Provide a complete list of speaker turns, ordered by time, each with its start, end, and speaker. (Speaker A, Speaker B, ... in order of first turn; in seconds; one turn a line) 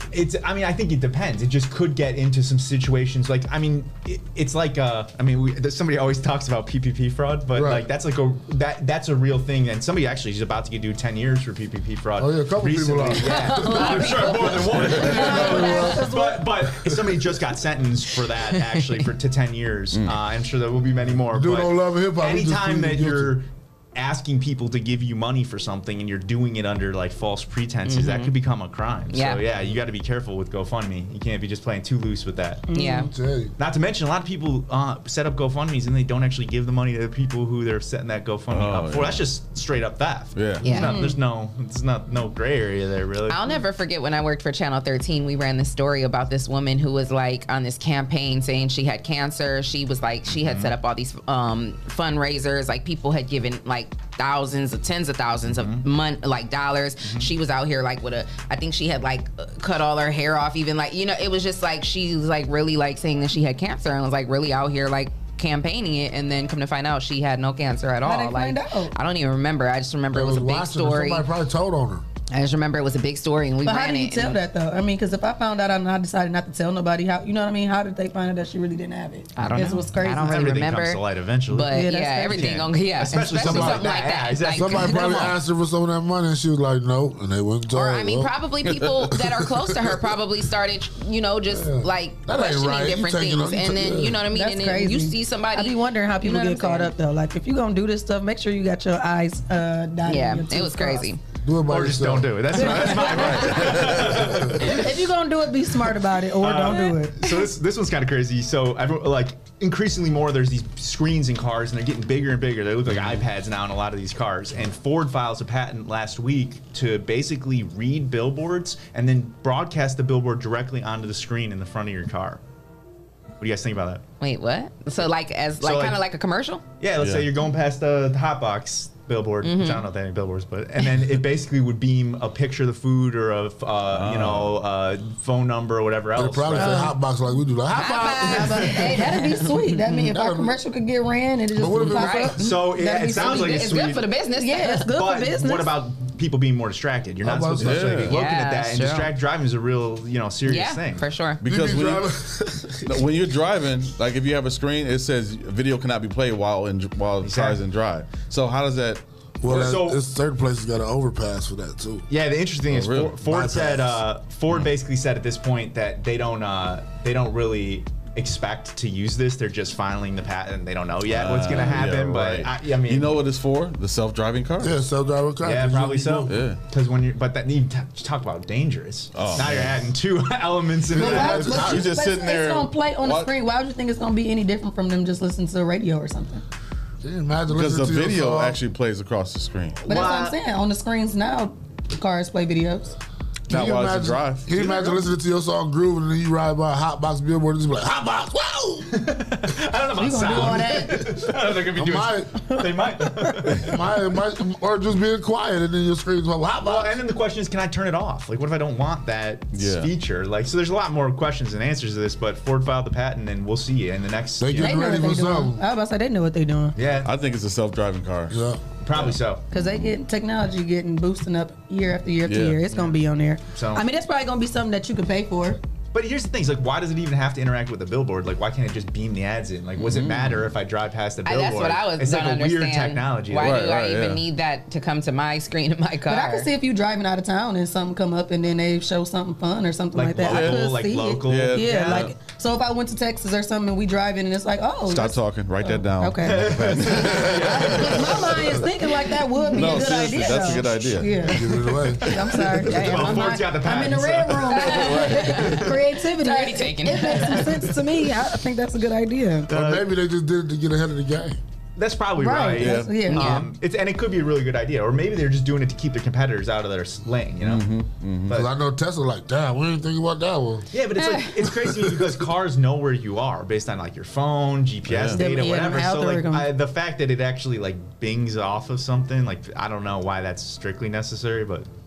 Speaker A: 0.1-32.6
Speaker B: 7.5-7.9
Speaker B: 12.2-16.1
Speaker C: 13.2-15.9
Speaker D: 13.7-14.1
Speaker D: 15.1-16.4
Speaker B: 16.8-17.1
Speaker B: 21.1-23.3
Speaker C: 27.9-28.3
Speaker C: 29.1-29.4
Speaker D: 32.7-33.1
Speaker C: 32.7-33.1
Speaker B: 33.1-33.5
Speaker A: 33.6-43.4
Speaker E: 38.5-39.2
Speaker E: 40.3-40.6
Speaker C: 40.6-40.9
Speaker D: 40.7-41.1
Speaker C: 43.3-71.2
Speaker A: 50.3-50.7
Speaker A: 55.5-55.8
Speaker A: 57.0-57.3
Speaker D: 68.0-68.9
Speaker B: 70.1-72.0
Speaker C: 72.3-74.4
Speaker D: 73.6-80.5
Speaker C: 79.3-85.3
Speaker A: 79.4-81.7
Speaker D: 81.7-82.5
Speaker A: 82.3-85.3
Speaker B: 83.3-83.9
Speaker B: 84.5-90.1
Speaker C: 87.7-96.9
Speaker B: 91.5-94.2
Speaker D: 94.3-101.1
Speaker C: 100.0-101.2
Speaker B: 101.4-102.3
Speaker A: 101.7-104.9
Speaker D: 102.5-103.4
Speaker E: 102.9-104.1
Speaker B: 103.9-104.6
Speaker D: 104.6-107.1
Speaker A: 106.4-122.4
Speaker E: 112.9-113.2
Speaker A: 123.4-124.0
Speaker C: 124.2-126.6
Speaker A: 125.6-126.0
Speaker A: 126.8-136.9
Speaker E: 127.0-127.3
Speaker C: 129.4-129.8
Speaker E: 133.9-134.5
Speaker B: 136.1-139.1
Speaker D: 136.5-136.9
Speaker C: 137.7-139.6
Speaker D: 138.2-143.7
Speaker B: 140.1-140.6
Speaker B: 141.5-142.4
Speaker C: 141.9-144.9
Speaker A: 142.4-144.0
Speaker D: 144.4-145.7
Speaker A: 144.9-151.0
Speaker B: 147.2-148.1
Speaker E: 147.6-148.1
Speaker C: 148.1-149.1
Speaker C: 150.4-151.4
Speaker E: 151.4-152.1
Speaker B: 151.4-152.8
Speaker E: 152.8-159.0
Speaker A: 157.2-157.6
Speaker B: 159.4-162.1
Speaker A: 159.5-160.0
Speaker A: 162.1-173.1
Speaker E: 162.7-163.2
Speaker B: 163.3-164.0
Speaker E: 171.1-174.8
Speaker B: 174.6-176.3
Speaker A: 175.4-181.8
Speaker E: 176.3-176.6
Speaker E: 179.1-179.8
Speaker B: 180.9-181.8
Speaker D: 181.0-186.4
Speaker E: 181.5-183.3
Speaker B: 187.0-188.6
Speaker E: 187.5-189.8
Speaker D: 189.8-192.9
Speaker A: 189.9-190.3
Speaker E: 193.5-194.8
Speaker B: 193.5-198.9
Speaker A: 198.9-203.8
Speaker D: 200.0-201.0
Speaker B: 200.4-200.9
Speaker B: 201.8-202.3
Speaker B: 203.6-207.0
Speaker A: 206.6-214.8
Speaker E: 209.5-209.9
Speaker B: 214.4-215.6
Speaker D: 214.6-216.7
Speaker A: 216.8-217.1
Speaker E: 217.0-218.4
Speaker B: 218.3-218.6
Speaker A: 218.8-219.4
Speaker E: 218.9-219.9
Speaker D: 219.5-225.6
Speaker E: 222.2-222.6
Speaker A: 223.5-223.8
Speaker A: 225.9-233.6
Speaker E: 229.8-230.4
Speaker C: 231.2-236.5
Speaker E: 233.4-234.2
Speaker D: 236.1-246.6
Speaker A: 239.9-242.1
Speaker E: 240.2-240.7
Speaker E: 241.2-242.1
Speaker E: 244.8-248.6
Speaker A: 246.2-248.5
Speaker D: 247.6-251.4
Speaker E: 249.5-251.3
Speaker B: 251.3-253.1
Speaker A: 251.4-255.8
Speaker D: 252.0-259.5
Speaker C: 254.5-257.6
Speaker E: 254.7-255.5
Speaker A: 259.5-259.8
Speaker B: 259.5-261.4
Speaker A: 261.8-267.6
Speaker D: 262.2-263.4
Speaker E: 262.6-263.4
Speaker E: 267.4-268.4
Speaker B: 268.3-270.6
Speaker A: 270.7-281.7
Speaker E: 274.9-275.2
Speaker D: 275.1-276.4